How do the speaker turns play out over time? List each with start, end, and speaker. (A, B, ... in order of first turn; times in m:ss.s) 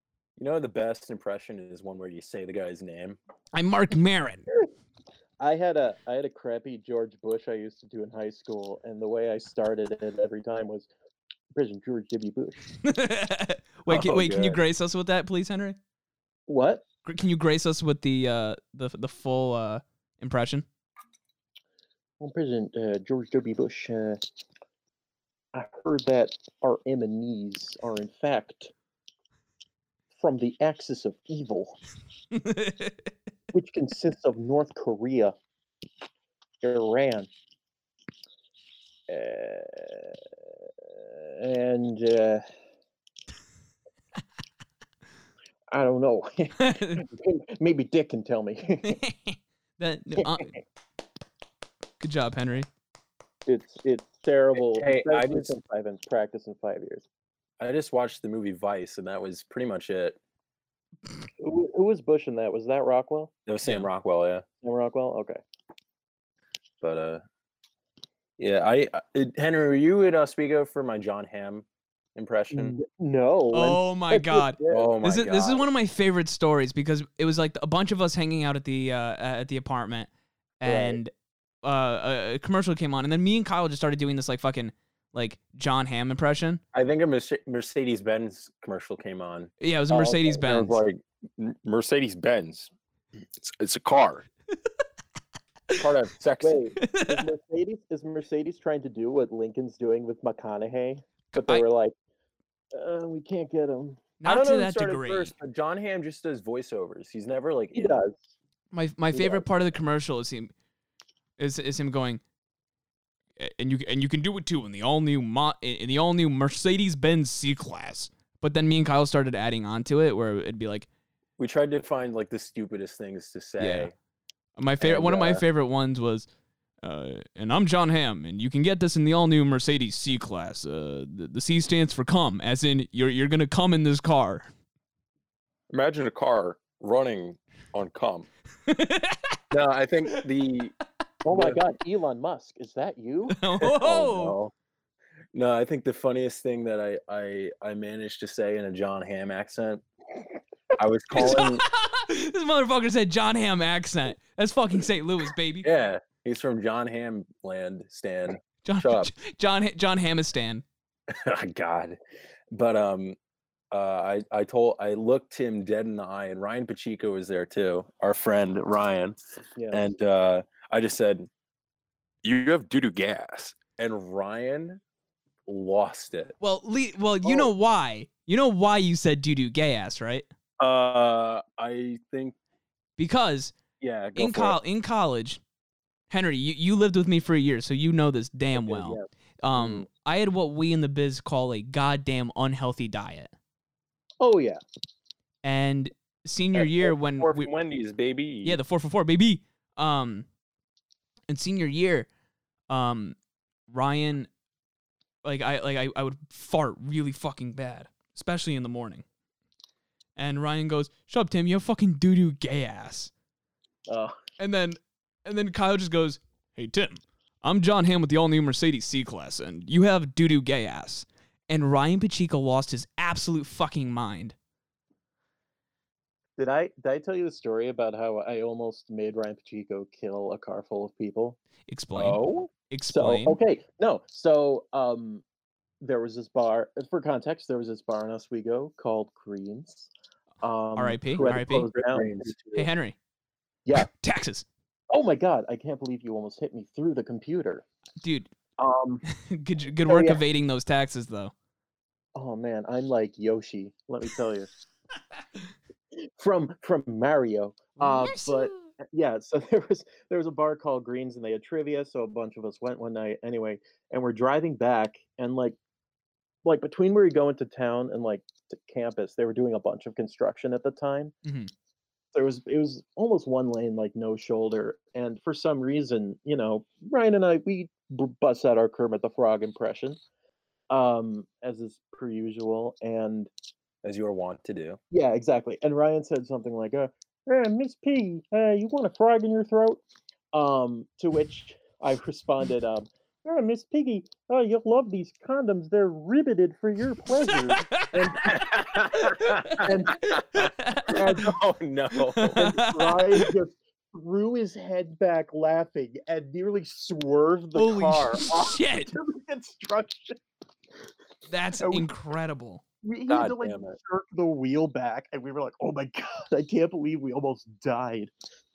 0:00.4-0:03.2 A
0:03.5-0:04.4 B
0:05.4-0:10.9 C
0:11.5-0:12.6 C
0:12.8-0:15.8 B
0:13.9-0:14.6 A
0:16.5-0:16.8 C
0:17.0-0:20.6 B
0:22.2-0:24.2 C
0:25.5-0:28.7 C
0:30.2-0:31.8 C
0:32.3-0:33.0 B
0:33.5-0:35.4 C
0:36.6-0:37.3 C
0:39.1-0:40.2 C
0:40.8-0:42.4 C
0:45.7-0:49.0 C
0:46.6-0:47.0 B
0:48.8-0:50.5 B
0:50.2-0:50.6 C
0:52.0-0:52.7 B
0:53.5-0:57.0 C
0:54.6-0:55.6 A
0:57.6-1:00.2 A
1:01.4-1:03.3 C
1:03.5-1:04.4 A
1:04.6-1:05.4 C
1:06.8-1:07.2 A
1:08.4-1:12.8 A
1:12.5-1:14.9 C
1:13.5-1:20.1 B
1:14.7-1:15.7 A
1:20.6-1:21.1 B
1:20.6-1:21.0 C
1:21.6-1:26.6 B
1:26.7-1:29.5 A
1:29.6-1:30.8 B
1:29.9-1:30.4 C
1:30.4-1:32.7 A
1:33.4-1:34.2 A
1:35.7-1:36.6 A
1:36.4-1:41.9 C
1:36.8-1:37.3 B
1:41.4-1:41.6 B
1:42.7-1:44.1 C
1:44.2-1:45.3 B
1:44.2-1:48.0 A
1:47.7-1:48.2 C
1:48.7-1:50.5 B
1:49.1-1:49.4 C
1:51.4-1:52.2 B
1:53.4-2:00.9 B
2:01.4-2:03.9 A
2:03.6-2:03.9 B
2:04.6-2:06.3 B
2:04.8-2:05.4 A
2:06.8-2:14.5 B
2:15.7-2:18.3 A
2:18.7-2:19.4 B
2:19.5-2:20.7 A
2:21.2-2:23.4 C
2:21.3-2:21.6 A
2:23.3-2:24.4 B
2:23.6-2:24.5 A
2:25.3-2:29.8 A
2:30.8-2:31.6 A
2:31.2-2:35.7 B
2:35.6-2:39.1 A
2:38.6-2:40.6 B
2:41.1-2:42.0 A
2:42.5-2:43.2 A
2:43.7-2:49.2 A
2:49.6-2:49.8 C
2:49.7-2:51.3 A
2:52.2-2:54.8 A
2:55.5-2:56.3 A
2:56.4-3:00.3 B
2:57.2-2:57.5 C
3:00.6-3:02.4 A
3:03.0-3:03.6 B
3:03.8-3:04.6 A
3:04.2-3:05.4 B
3:06.1-3:13.3 B
3:08.6-3:09.0 A
3:09.6-3:09.8 A
3:14.2-3:14.6 C
3:15.4-3:17.5 B
3:16.6-3:18.6 A
3:18.4-3:20.3 B
3:21.3-3:22.1 B
3:22.7-3:23.2 B
3:23.7-3:24.3 B
3:25.2-3:29.0 B
3:30.2-3:33.1 B
3:33.9-3:34.2 C
3:34.4-3:44.4 B
3:46.4-3:51.4 C
3:51.7-3:53.4 B
3:52.0-3:52.5 A
3:52.9-3:55.2 C
3:55.8-3:59.9 C
4:00.4-4:02.4 C
4:00.8-4:01.7 B
4:01.8-4:02.7 A
4:02.5-4:03.0 B
4:03.7-4:04.5 B
4:04.9-4:07.6 C
4:08.0-4:08.3 B
4:08.6-4:09.0 C
4:09.1-4:11.3 B
4:09.9-4:10.2 C
4:12.2-4:14.5 C
4:16.0-4:25.6 C
4:17.8-4:18.7 B
4:26.4-4:31.1 C
4:31.2-4:31.5 B
4:32.1-4:40.0 C
4:40.7-4:43.3 C
4:43.8-4:44.8 A
4:44.9-4:49.8 C
4:50.3-4:58.8 C
4:57.4-4:58.3 B
4:58.2-5:02.4 A
4:59.6-5:00.2 C
5:00.4-5:01.0 B
5:00.9-5:01.4 C
5:02.0-5:03.3 B
5:02.3-5:10.2 C
5:07.5-5:08.9 B
5:11.3-5:12.6 B
5:11.6-5:11.9 C
5:12.8-5:18.1 C
5:13.1-5:13.8 A